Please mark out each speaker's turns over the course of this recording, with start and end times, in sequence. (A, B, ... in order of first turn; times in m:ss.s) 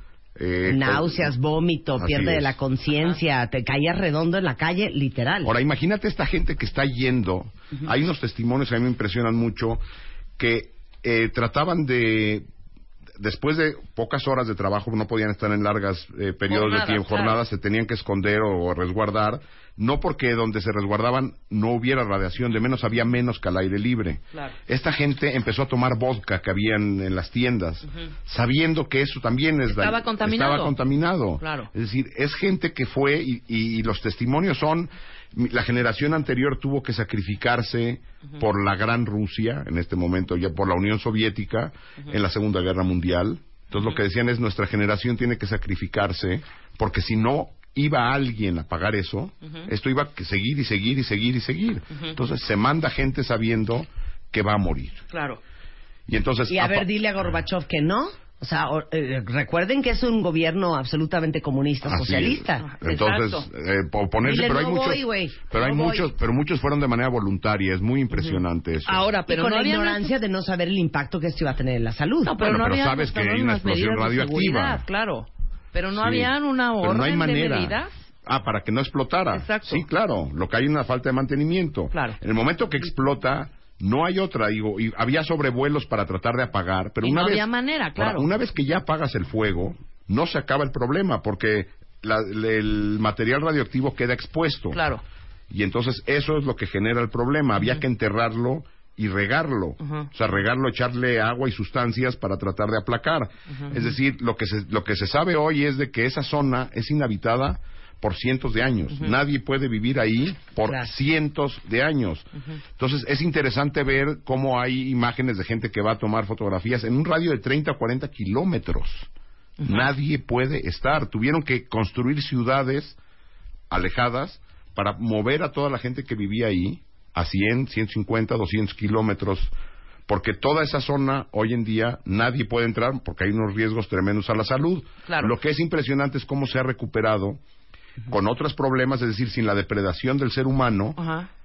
0:00.4-0:01.3 A
0:00.7-0:05.5 B
0:02.0-0:02.6 A
0:05.4-0:09.8 A
0:10.4-0:12.5 A
0:13.2-0:55.0 A
0:16.5-0:17.4 C
0:29.7-0:30.8 C
0:31.4-0:31.7 C
0:55.1-0:55.4 C
0:56.1-0:56.9 A
0:56.5-1:02.7 B
1:01.8-1:09.1 A
1:02.6-1:03.5 C
1:04.2-1:06.1 B
1:08.3-1:10.2 C
1:09.3-1:12.4 B
1:12.2-1:17.9 C
1:12.4-1:14.8 A
1:15.9-1:34.8 A
1:19.3-1:19.8 C
1:27.0-1:28.3 C
1:34.7-1:35.0 C
1:35.5-1:59.1 A
1:39.8-1:40.1 C
1:43.6-1:43.8 C
1:59.6-1:59.9 C
1:59.6-2:03.0 A
2:03.7-2:09.5 A
2:10.1-2:17.4 A
2:15.1-2:15.3 C
2:18.1-2:21.0 A
2:21.0-2:21.3 C